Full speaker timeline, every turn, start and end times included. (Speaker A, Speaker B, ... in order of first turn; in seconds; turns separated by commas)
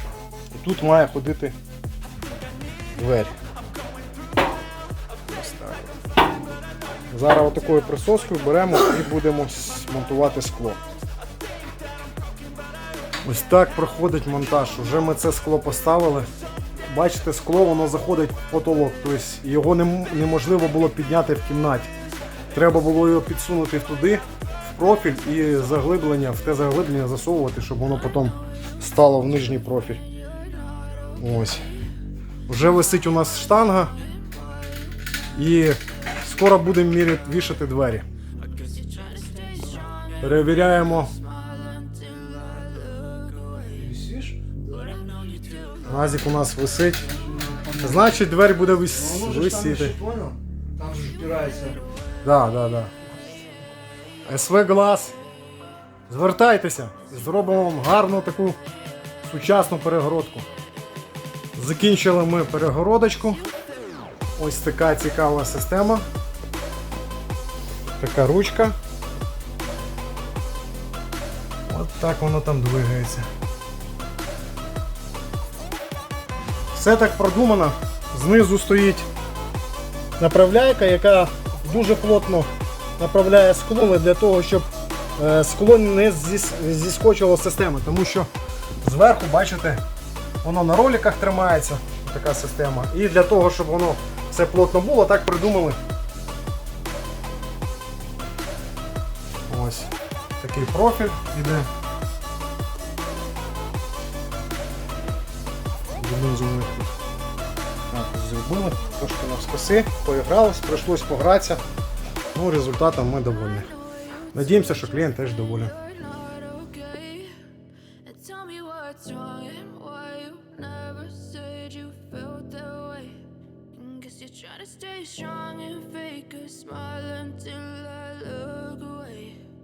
Speaker A: 0.5-1.6, Speaker A: 3.0-3.3, Speaker A: 5.3-6.0, Speaker A: 7.1-10.8, Speaker A: 13.2-16.3, Speaker A: 16.9-21.9, Speaker A: 22.5-30.0, Speaker A: 31.2-31.7, Speaker A: 32.5-33.9, Speaker A: 35.3-38.0, Speaker B: 38.5-40.3, Speaker A: 40.2-41.1, Speaker B: 41.1-44.0, Speaker C: 43.7-44.5, Speaker B: 44.7-45.9, Speaker A: 45.8-47.1, Speaker C: 47.0-48.1, Speaker A: 47.8-50.0, Speaker C: 48.9-51.8, Speaker A: 52.2-52.9, Speaker A: 54.2-55.1, Speaker A: 56.1-58.6, Speaker A: 59.2-60.5, Speaker A: 61.5-63.4, Speaker A: 64.4-66.0, Speaker A: 68.0-68.8, Speaker A: 71.7-73.3, Speaker A: 76.7-79.1, Speaker A: 80.2-88.3, Speaker A: 88.8-89.8, Speaker A: 90.4-95.8, Speaker A: 99.5-101.7, Speaker A: 106.0-106.9, Speaker A: 107.9-111.6, Speaker A: 112.3-113.7, Speaker A: 114.3-115.7, Speaker B: 115.9-117.4, Speaker B: 118.0-123.2, Speaker B: 123.7-129.4